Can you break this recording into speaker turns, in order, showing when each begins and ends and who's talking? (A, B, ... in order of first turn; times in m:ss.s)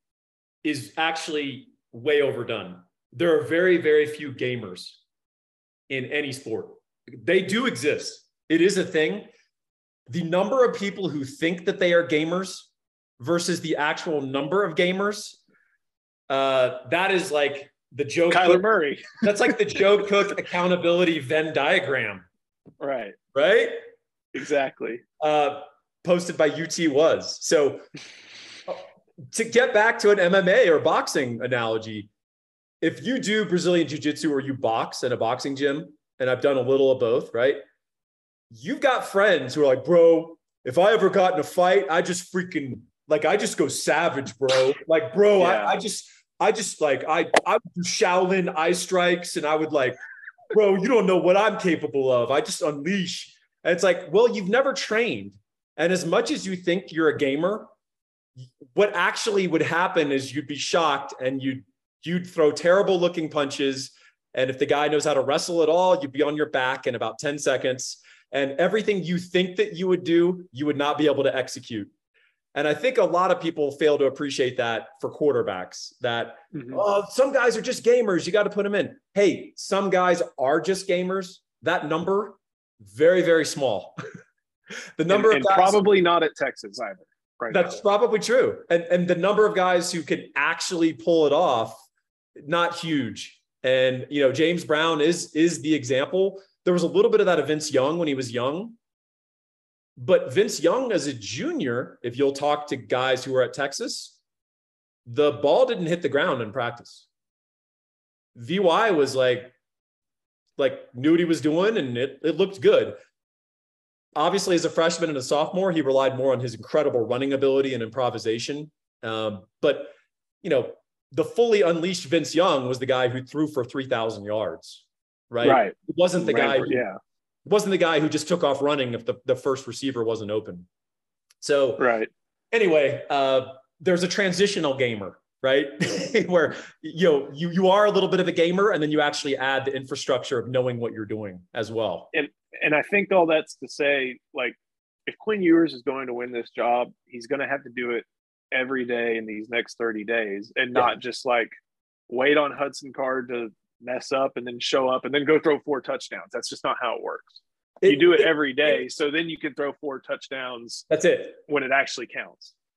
0:00.6-0:05.0 A
0:05.9-0:09.3 A
0:10.1-0:15.4 A
0:16.3-0:18.6 A
0:18.3-0:19.8 B
0:19.2-0:22.3 A
0:22.8-0:23.2 B
0:23.3-0:23.8 A
0:24.3-0:25.0 B
0:25.2-0:27.8 A
0:28.7-0:32.1 A
0:32.8-0:37.6 A
0:38.5-0:50.0 A
0:45.4-0:45.8 B
0:50.5-0:57.7 A
0:58.6-1:11.9 A
1:12.5-1:24.0 A
1:16.5-1:16.8 B
1:25.0-1:25.8 A
1:25.1-1:27.8 B
1:27.5-1:31.8 A
1:32.4-1:38.8 A
1:40.0-1:44.2 A
1:45.0-1:47.1 A
1:48.3-1:49.5 A
1:50.6-1:53.0 A
1:54.2-2:06.8 A
2:05.4-2:07.0 B
2:07.4-2:10.7 A
2:11.4-2:11.8 A
2:11.8-2:12.1 B
2:12.5-2:22.1 A
2:22.1-2:31.5 B
2:32.1-2:40.8 B
2:37.8-2:38.3 A
2:40.9-2:41.4 A
2:41.5-2:42.5 B